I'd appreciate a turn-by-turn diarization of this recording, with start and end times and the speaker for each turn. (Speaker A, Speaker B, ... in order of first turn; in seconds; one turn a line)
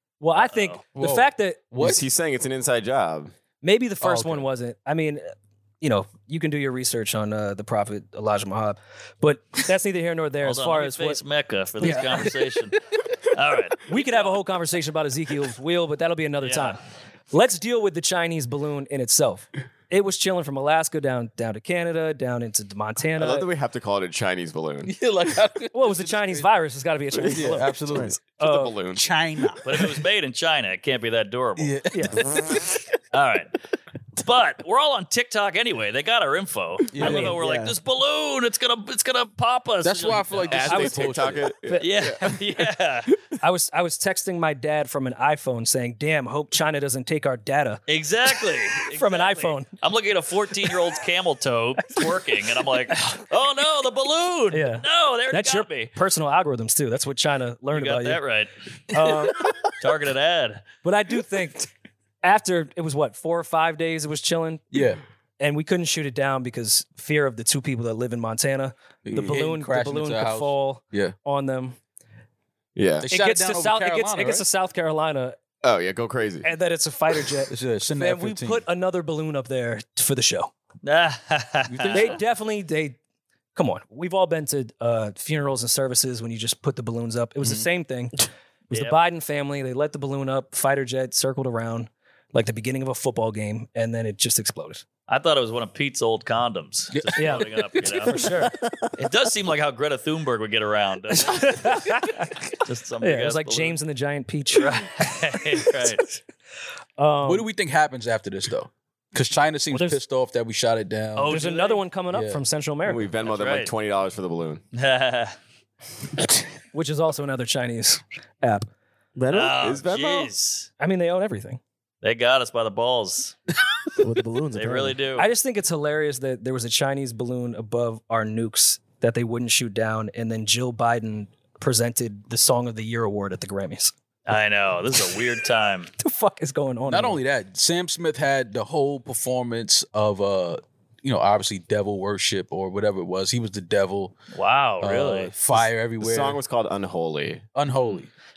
Speaker A: 0.2-1.7
Speaker B: 0.4-0.8
Speaker C: 1.0-2.0
Speaker D: 1.8-3.3
Speaker A: 3.6-11.2
Speaker C: 4.0-4.4
Speaker B: 10.4-12.8
Speaker A: 11.8-12.3
Speaker B: 13.3-14.4
Speaker A: 13.9-16.8
Speaker B: 16.4-16.8
Speaker A: 17.3-23.5
Speaker D: 23.2-24.9
Speaker C: 24.8-26.5
Speaker A: 25.7-28.8
Speaker C: 27.2-28.2
Speaker D: 27.9-29.0
Speaker C: 28.9-29.9
Speaker B: 29.6-31.8
Speaker C: 31.6-32.9
Speaker A: 31.9-32.2
Speaker B: 33.1-33.5
Speaker B: 34.2-40.7
Speaker C: 36.9-37.3
Speaker A: 37.0-37.4
Speaker E: 37.3-37.7
Speaker C: 39.8-41.5
Speaker D: 40.5-42.4
Speaker A: 40.7-42.0
Speaker B: 41.8-43.1
Speaker A: 43.4-47.8
Speaker B: 47.9-55.9
Speaker A: 48.8-49.7
Speaker A: 52.9-53.2
Speaker A: 54.5-58.2
Speaker B: 57.7-58.5
Speaker A: 58.9-59.5
Speaker B: 59.8-60.6
Speaker A: 60.8-61.7
Speaker A: 62.2-64.8
Speaker C: 64.7-65.0
Speaker A: 65.4-71.8
Speaker C: 69.0-71.1
Speaker D: 72.8-73.1
Speaker C: 73.0-74.4
Speaker A: 73.1-75.4
Speaker D: 75.6-76.5
Speaker A: 76.4-80.5
Speaker C: 77.5-78.6
Speaker B: 80.8-82.1
Speaker C: 81.7-82.1
Speaker A: 81.9-83.0
Speaker A: 83.5-88.2
Speaker C: 87.4-87.7
Speaker A: 88.7-94.8
Speaker B: 88.7-89.0
Speaker B: 95.1-98.2
Speaker C: 96.9-98.3
Speaker A: 97.2-98.5
Speaker B: 99.0-101.8
Speaker A: 101.1-102.5
Speaker B: 102.6-103.8
Speaker A: 103.0-105.1
Speaker B: 104.5-106.0
Speaker A: 107.0-107.5
Speaker C: 107.2-111.4
Speaker A: 109.7-110.0
Speaker B: 111.1-111.8
Speaker A: 111.3-113.1
Speaker C: 112.1-112.4
Speaker D: 112.8-114.6
Speaker B: 113.2-113.7
Speaker B: 114.7-115.3
Speaker A: 116.7-118.7
Speaker E: 119.2-119.6
Speaker B: 119.3-120.7
Speaker D: 119.6-120.3
Speaker A: 120.8-121.6
Speaker B: 122.0-123.3
Speaker E: 124.0-125.0
Speaker B: 124.5-125.3
Speaker A: 125.2-133.9
Speaker B: 134.3-135.9
Speaker A: 136.0-137.2
Speaker C: 136.9-144.2
Speaker B: 144.3-145.3
Speaker C: 144.8-146.4
Speaker D: 145.5-147.4
Speaker C: 147.5-148.1